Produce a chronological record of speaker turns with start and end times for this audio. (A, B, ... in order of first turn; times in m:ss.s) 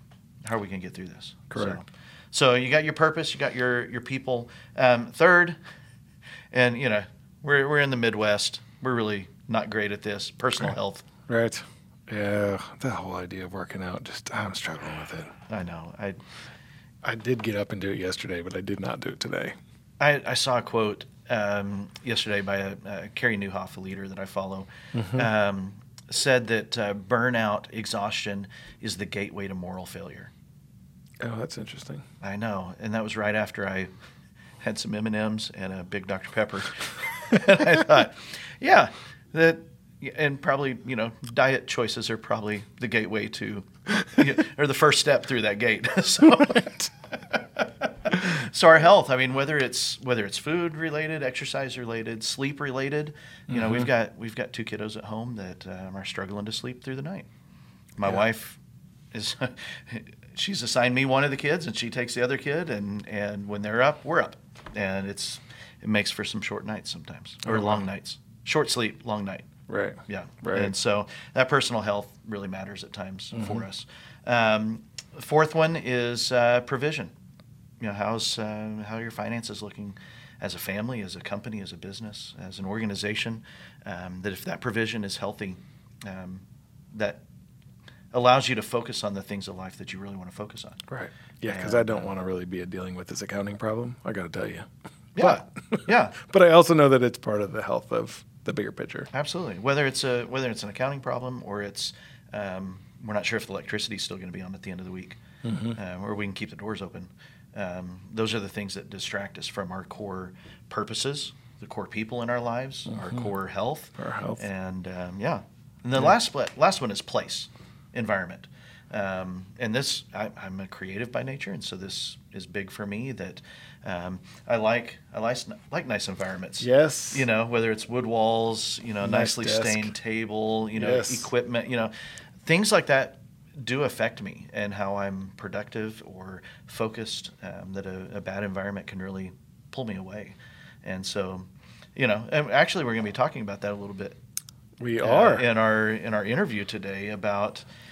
0:00.4-0:05.6 A
0:01.5-0:01.8 B
0:06.5-0:11.0 A
0:11.3-0:15.3 B
0:15.5-0:16.2 A
0:17.0-0:19.6 B
0:20.0-0:30.3 A
0:24.9-0:25.3 B
0:31.2-0:32.0 B
0:32.2-0:33.9 A
0:34.6-0:57.3 A
0:53.5-0:53.9 B
0:58.0-0:58.6 A
0:59.1-1:09.5 A
1:07.4-1:07.8 B
1:09.7-1:10.7 B
1:10.1-1:17.1 A
1:13.3-1:13.6 B
1:17.8-1:27.2 A
1:28.1-1:30.8 A
1:30.9-1:39.1 B
1:31.4-1:32.1 A
1:35.2-1:36.2 A
1:39.1-1:45.2 A
1:45.4-1:45.8 B
1:45.7-2:11.9 A
1:52.9-1:53.3 B
1:54.0-1:54.4 B
2:06.6-2:07.2 B
2:09.0-2:09.9 B
2:10.8-2:11.3 B
2:12.4-2:24.2 A
2:24.8-2:25.4 B
2:25.0-2:27.6 A